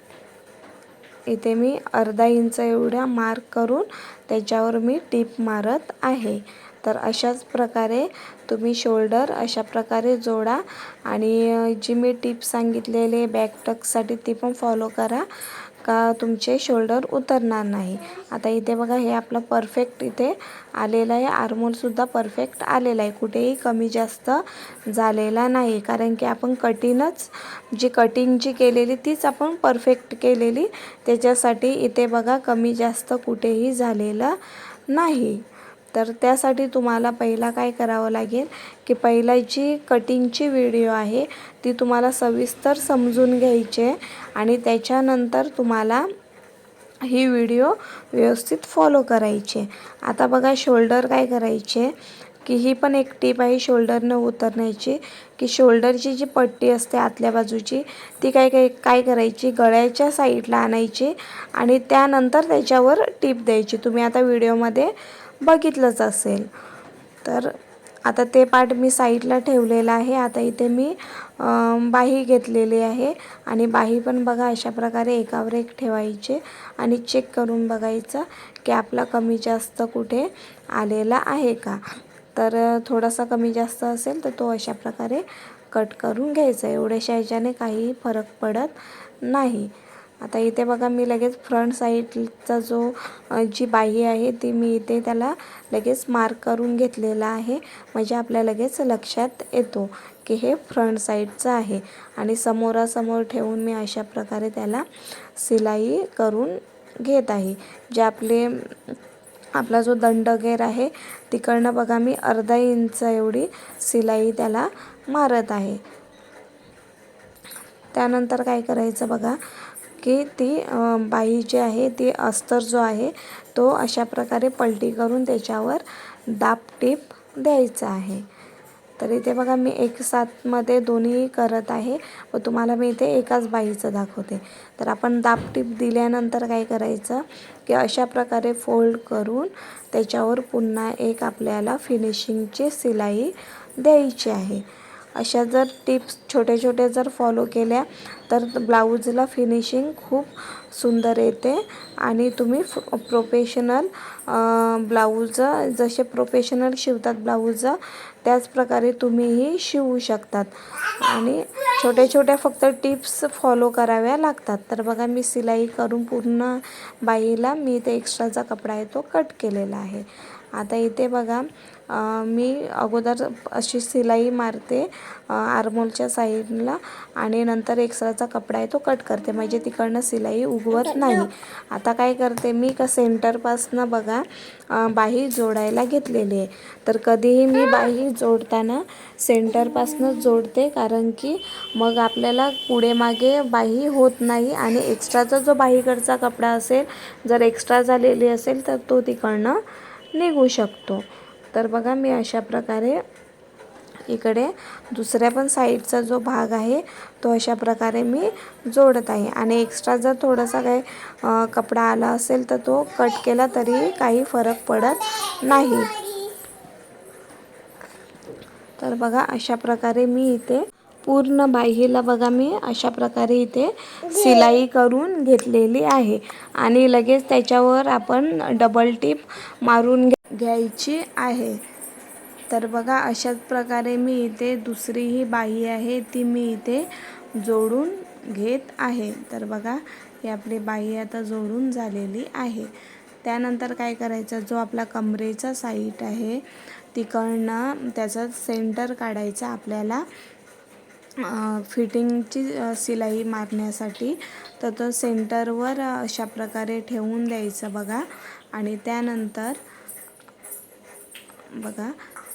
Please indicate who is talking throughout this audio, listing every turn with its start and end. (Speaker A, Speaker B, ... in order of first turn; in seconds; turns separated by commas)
Speaker A: 1.3-46.1, Speaker A: 47.0-66.5, Speaker A: 67.2-81.8, Speaker A: 82.3-109.0, Speaker A: 109.5-115.8, Speaker A: 117.9-119.4, Speaker A: 120.0-128.3, Speaker A: 129.0-203.0, Speaker A: 204.1-216.1, Speaker A: 218.8-231.6, Speaker A: 232.5-242.7, Speaker A: 243.2-250.1, Speaker A: 251.2-259.6, Speaker A: 261.6-261.9